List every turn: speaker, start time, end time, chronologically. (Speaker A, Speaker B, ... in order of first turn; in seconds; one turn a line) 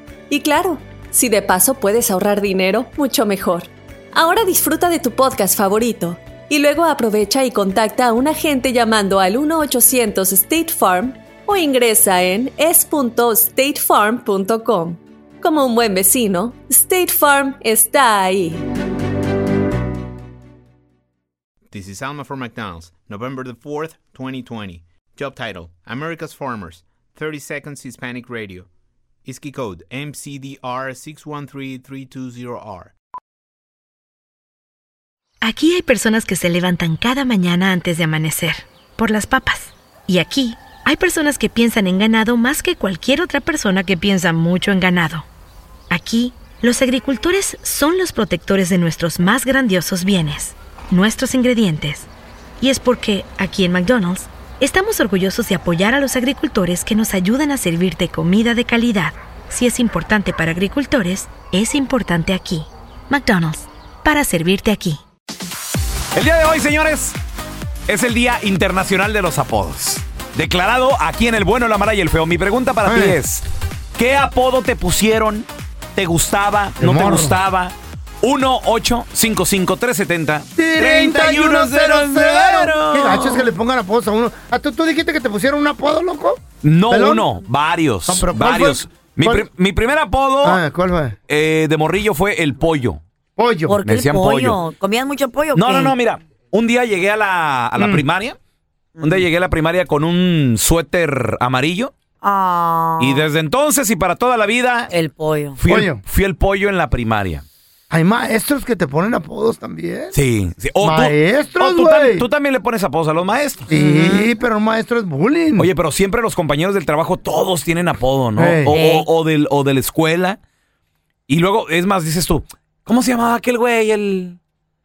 Speaker A: 0.3-18.6
Speaker B: 21.7-28.7
Speaker B: 29.2-32.9
Speaker C: 35.4-45.2
Speaker C: 45.9-52.1
Speaker C: 52.6-65.0
Speaker D: 66.1-67.2
Speaker D: 67.9-73.4
Speaker E: 72.8-73.2
Speaker D: 74.0-83.5
Speaker E: 76.8-77.4
Speaker E: 80.6-87.3
Speaker D: 86.6-90.6
Speaker E: 88.1-89.5
Speaker E: 90.4-91.2
Speaker D: 91.3-93.0
Speaker E: 93.4-93.8
Speaker F: 93.7-95.9
Speaker D: 93.8-94.6
Speaker D: 95.5-98.4
Speaker E: 97.8-98.0
Speaker D: 99.0-101.9
Speaker F: 102.2-103.2
Speaker D: 103.0-104.9
Speaker F: 104.9-105.5
Speaker D: 105.5-107.4
Speaker E: 105.7-106.0
Speaker E: 107.9-110.1
Speaker D: 110.1-113.7
Speaker E: 110.8-112.3
Speaker E: 113.7-115.7
Speaker F: 113.8-114.2
Speaker D: 115.6-120.4
Speaker E: 118.4-118.8
Speaker F: 118.7-119.0
Speaker D: 121.3-124.4